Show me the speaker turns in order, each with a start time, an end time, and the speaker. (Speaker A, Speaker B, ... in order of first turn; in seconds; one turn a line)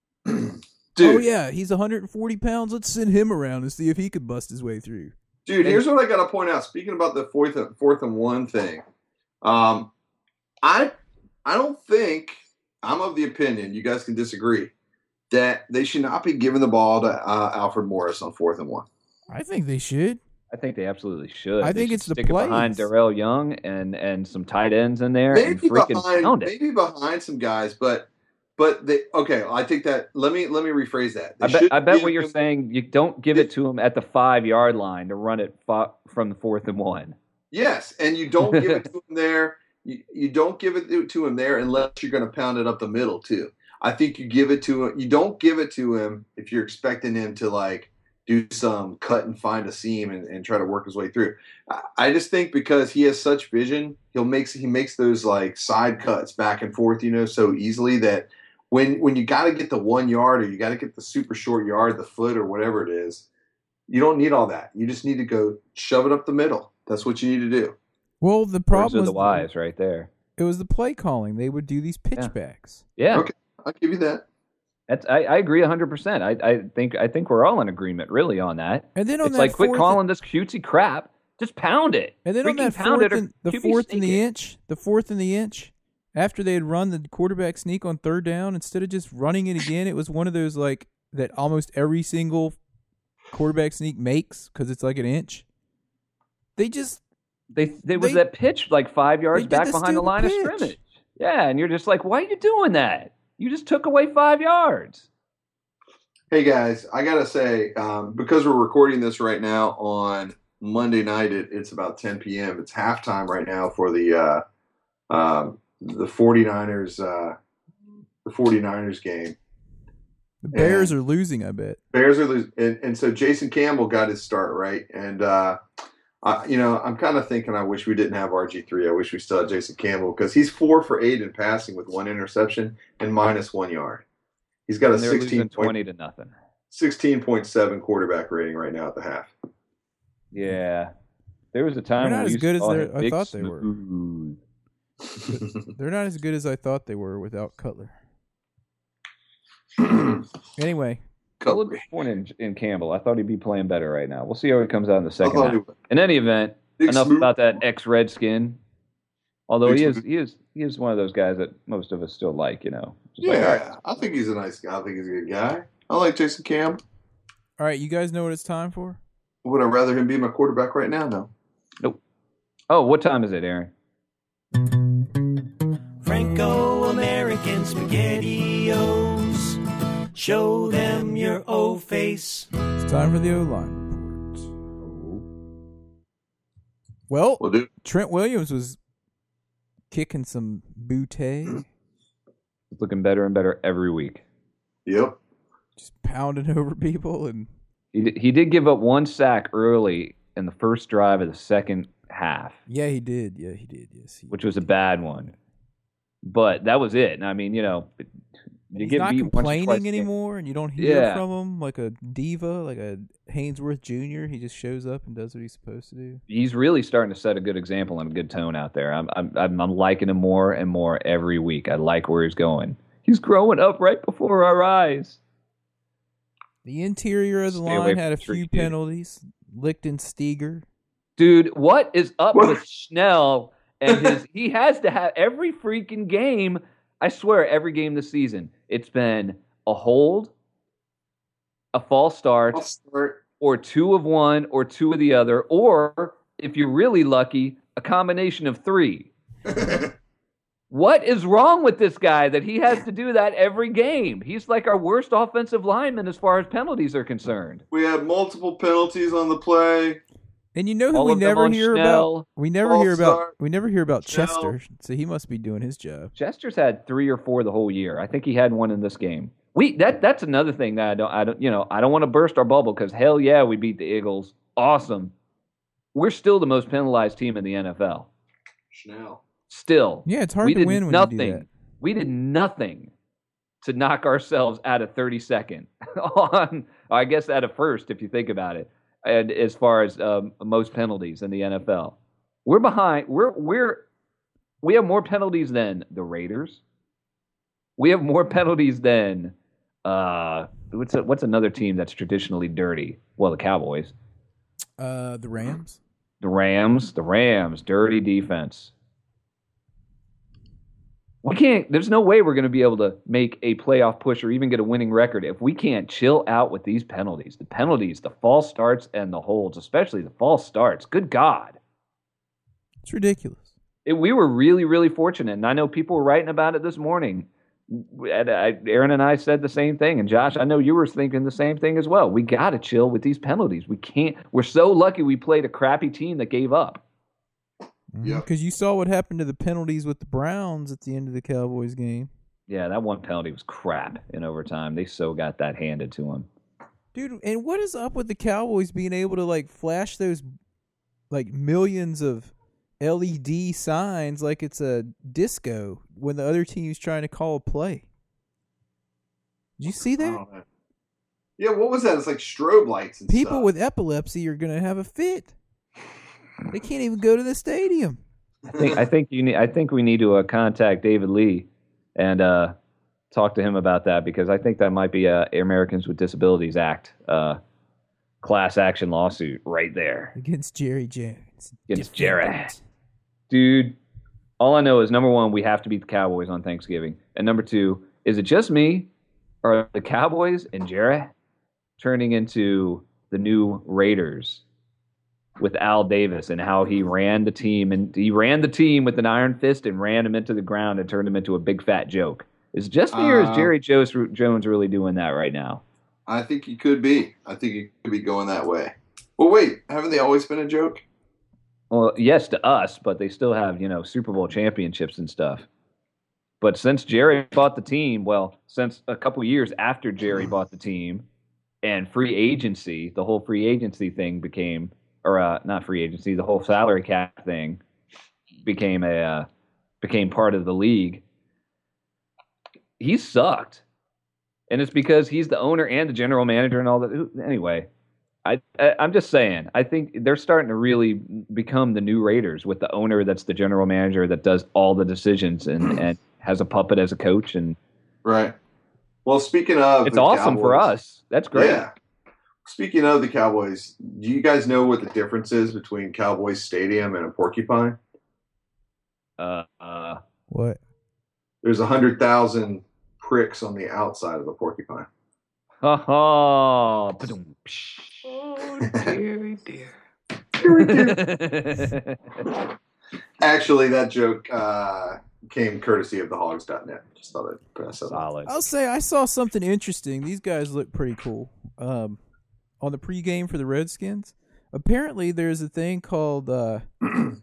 Speaker A: 0.3-1.3
Speaker B: 1.0-5.1
Speaker A: 5.5-8.8
Speaker A: 9.4-9.9
Speaker A: 10.6-10.9
Speaker A: 11.4-14.7
Speaker A: 15.3-18.9
Speaker B: 19.3-20.2
Speaker C: 20.5-26.5
Speaker B: 21.6-22.9
Speaker A: 25.3-32.3
Speaker C: 31.4-37.2
Speaker A: 37.5-63.3
Speaker C: 38.5-38.8
Speaker A: 63.9-67.8
Speaker B: 68.2-69.5
Speaker C: 68.7-70.1
Speaker B: 70.4-72.8
Speaker C: 73.0-73.3
Speaker A: 73.1-74.2
Speaker C: 74.9-84.2
Speaker B: 79.0-80.0
Speaker B: 82.2-92.6
Speaker B: 93.3-95.5
Speaker B: 96.6-97.0
Speaker C: 97.5-105.1
Speaker B: 97.9-98.2
Speaker B: 99.3-100.8
Speaker A: 106.3-114.4
Speaker A: 115.1-117.4
Speaker A: 118.2-119.3
Speaker B: 120.4-121.8
Speaker A: 120.5-120.9
Speaker A: 121.9-125.6
Speaker A: 126.2-134.1
Speaker A: 134.7-135.7
Speaker C: 134.9-136.3
Speaker A: 136.7-139.3
Speaker C: 140.3-140.9
Speaker C: 141.5-144.4
Speaker B: 142.0-143.7
Speaker B: 145.3-147.9
Speaker A: 149.8-150.2
Speaker B: 150.6-151.0
Speaker A: 151.4-151.8
Speaker C: 151.4-158.6
Speaker A: 155.2-155.7
Speaker A: 156.8-157.3
Speaker C: 159.5-163.7
Speaker A: 159.7-160.0
Speaker A: 163.2-166.8
Speaker B: 167.6-169.0
Speaker A: 169.4-171.3
Speaker C: 172.7-173.7
Speaker D: 176.0-179.6
Speaker D: 180.2-182.5
Speaker B: 182.7-184.5
Speaker C: 184.8-185.2
Speaker B: 187.1-188.8
Speaker A: 187.4-187.7
Speaker B: 189.9-191.6
Speaker C: 192.7-194.2
Speaker A: 194.9-195.2
Speaker B: 195.8-197.5
Speaker C: 197.9-202.6
Speaker B: 202.7-204.4
Speaker C: 204.3-205.3
Speaker C: 206.2-208.1
Speaker C: 208.7-210.1
Speaker B: 208.8-216.2
Speaker C: 210.8-211.2
Speaker C: 216.3-225.2
Speaker B: 226.6-230.6
Speaker C: 227.5-228.7
Speaker C: 231.2-240.3
Speaker C: 241.7-242.6
Speaker A: 242.5-243.2
Speaker C: 243.4-249.1
Speaker A: 249.5-249.9
Speaker C: 250.7-257.6
Speaker A: 257.7-260.0
Speaker B: 260.6-266.1
Speaker C: 260.9-262.3
Speaker A: 262.6-263.3
Speaker A: 264.0-264.5
Speaker C: 266.2-275.1
Speaker C: 275.9-278.1
Speaker A: 278.7-279.2
Speaker C: 279.5-282.9
Speaker B: 280.1-281.4
Speaker C: 283.6-293.9
Speaker C: 294.6-296.6
Speaker C: 297.8-299.3
Speaker C: 299.9-303.9
Speaker B: 304.8-305.8
Speaker C: 306.2-308.7
Speaker C: 311.2-321.6
Speaker B: 322.8-323.5
Speaker C: 323.9-336.8
Speaker B: 337.9-342.1
Speaker C: 342.5-346.3
Speaker B: 346.9-350.3
Speaker B: 351.1-357.9
Speaker B: 359.6-360.2
Speaker A: 360.0-360.4
Speaker A: 361.4-363.5
Speaker B: 363.1-365.3
Speaker B: 366.5-368.0
Speaker A: 368.5-368.8
Speaker C: 368.6-372.6
Speaker C: 373.1-377.4
Speaker C: 378.2-380.1
Speaker B: 380.1-382.6
Speaker C: 381.7-382.5
Speaker C: 383.3-383.8
Speaker C: 384.4-388.9
Speaker C: 389.4-391.1
Speaker C: 391.8-394.4
Speaker C: 395.4-405.6
Speaker A: 402.9-403.5
Speaker A: 406.1-410.8
Speaker C: 411.7-415.5
Speaker C: 416.4-421.1
Speaker C: 421.6-427.6
Speaker C: 428.4-429.3
Speaker C: 429.8-431.0
Speaker C: 432.8-433.6
Speaker C: 434.5-437.7
Speaker C: 438.2-447.6
Speaker A: 448.1-448.4
Speaker A: 449.1-450.7
Speaker C: 449.9-451.6
Speaker A: 451.3-451.7
Speaker A: 452.4-457.8
Speaker C: 459.2-460.0
Speaker B: 460.3-460.6
Speaker A: 461.4-464.9
Speaker C: 465.6-468.1
Speaker A: 468.6-469.0
Speaker D: 468.8-469.7
Speaker A: 470.4-471.1
Speaker C: 470.5-472.3
Speaker A: 473.2-478.1
Speaker C: 477.9-478.4
Speaker B: 478.3-482.0
Speaker B: 482.6-486.7